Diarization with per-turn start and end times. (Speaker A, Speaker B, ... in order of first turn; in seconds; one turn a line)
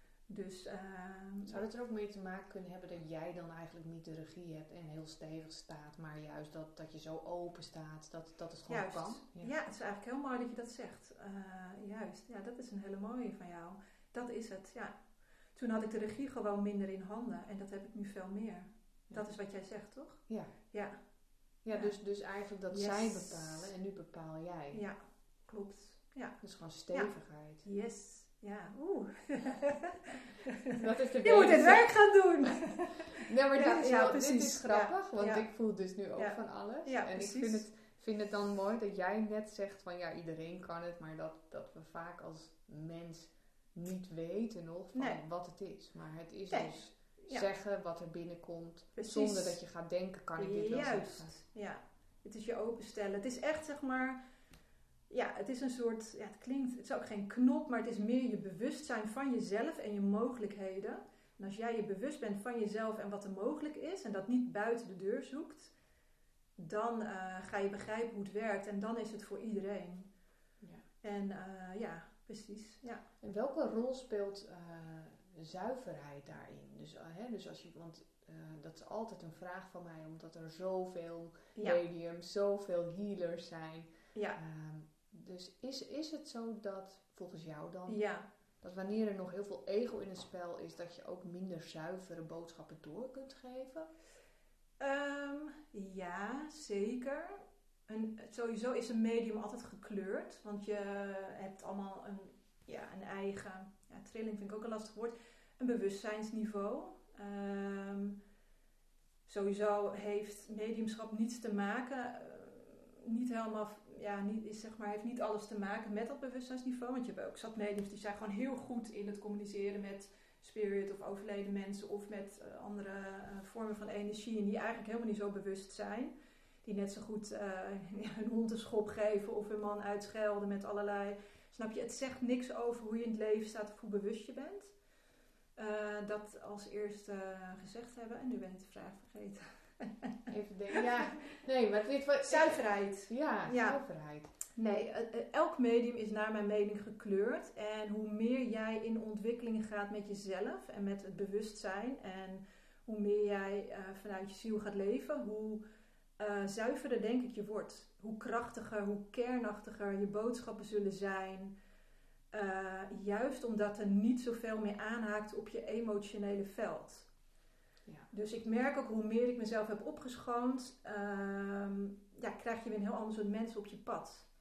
Speaker A: 0.3-1.6
Speaker B: 1.5-9.5
Speaker A: 8.7-14.9
Speaker A: 15.6-21.0
Speaker B: 20.3-20.5
Speaker B: 21.6-24.8
Speaker A: 22.7-23.7
Speaker A: 24.7-26.4
Speaker B: 26.4-27.6
Speaker A: 27.6-35.5
Speaker B: 30.7-51.3
Speaker A: 36.2-37.7
Speaker A: 44.9-45.2
Speaker A: 46.5-47.5
Speaker A: 49.0-49.6
Speaker A: 50.4-54.2
Speaker A: 55.1-65.7
Speaker A: 66.6-70.1
Speaker A: 71.0-73.0
Speaker B: 73.2-88.0
Speaker A: 81.5-81.8
Speaker A: 87.9-88.3
Speaker B: 88.6-93.9
Speaker A: 94.8-108.2
Speaker A: 109.3-126.1
Speaker A: 126.6-134.7
Speaker A: 135.6-141.4
Speaker B: 140.3-144.3
Speaker A: 142.2-143.8
Speaker A: 144.6-155.6
Speaker A: 156.2-161.5
Speaker A: 162.3-167.1
Speaker A: 168.1-174.3